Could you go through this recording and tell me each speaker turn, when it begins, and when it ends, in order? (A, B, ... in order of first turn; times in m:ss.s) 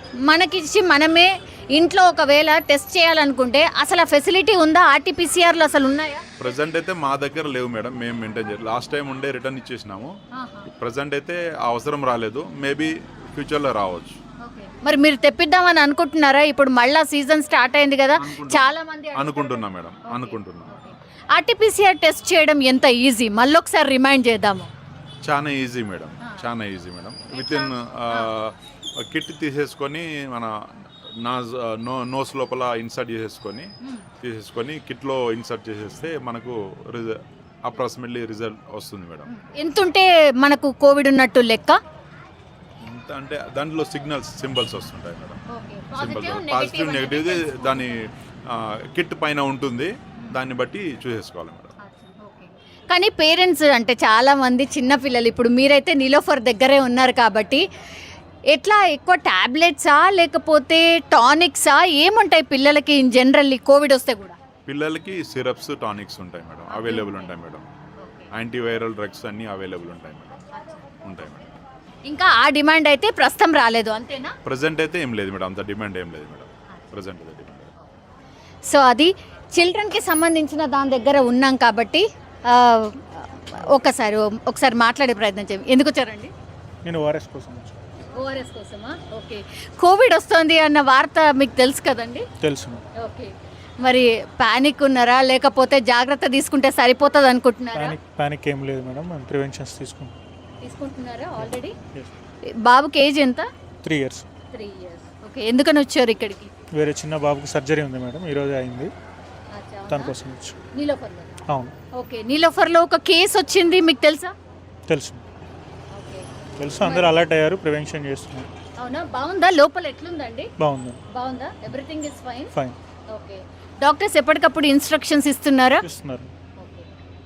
0:00.2-0:06.2 A
0:06.4-0:10.1 B
0:10.3-0:10.7 A
0:10.7-0:14.2 B
0:14.4-0:24.7 A
0:18.2-0:20.8 B
0:25.2-0:30.5 B
0:26.2-0:26.5 A
0:27.2-0:28.3 A
0:31.2-0:33.7 B
0:34.2-0:39.3 B
0:39.2-0:41.8 A
0:42.8-0:45.4 B
0:45.5-0:48.0 A
0:46.0-0:48.0 B
0:48.5-0:51.7 B
0:51.8-0:57.6 A
0:58.5-1:04.4 A
1:04.6-1:07.6 B
1:06.7-1:07.3 A
1:08.0-1:08.3 A
1:08.3-1:10.4 B
1:11.0-1:11.4 B
1:12.1-1:14.4 A
1:14.4-1:17.7 B
1:18.7-1:26.3 A
1:26.8-1:27.8 C
1:28.0-1:32.2 A
1:32.4-1:32.8 C
1:33.0-1:38.0 A
1:37.7-1:40.1 C
1:40.6-1:41.8 A
1:41.4-1:42.1 C
1:42.5-1:43.5 A
1:43.8-1:44.2 C
1:44.5-1:46.5 A
1:46.7-1:48.9 C
1:49.5-1:50.1 A
1:49.9-1:50.6 C
1:50.7-1:51.4 A
1:51.5-1:51.7 C
1:51.9-1:54.3 A
1:54.9-1:55.2 C
1:55.9-1:56.3 A
1:56.6-1:58.5 C
1:56.8-1:57.2 A
1:58.8-2:00.5 A
2:00.6-2:01.0 C
2:01.1-2:02.5 A
2:03.1-2:05.8 A
2:05.8-2:06.3 C
2:06.6-2:06.9 A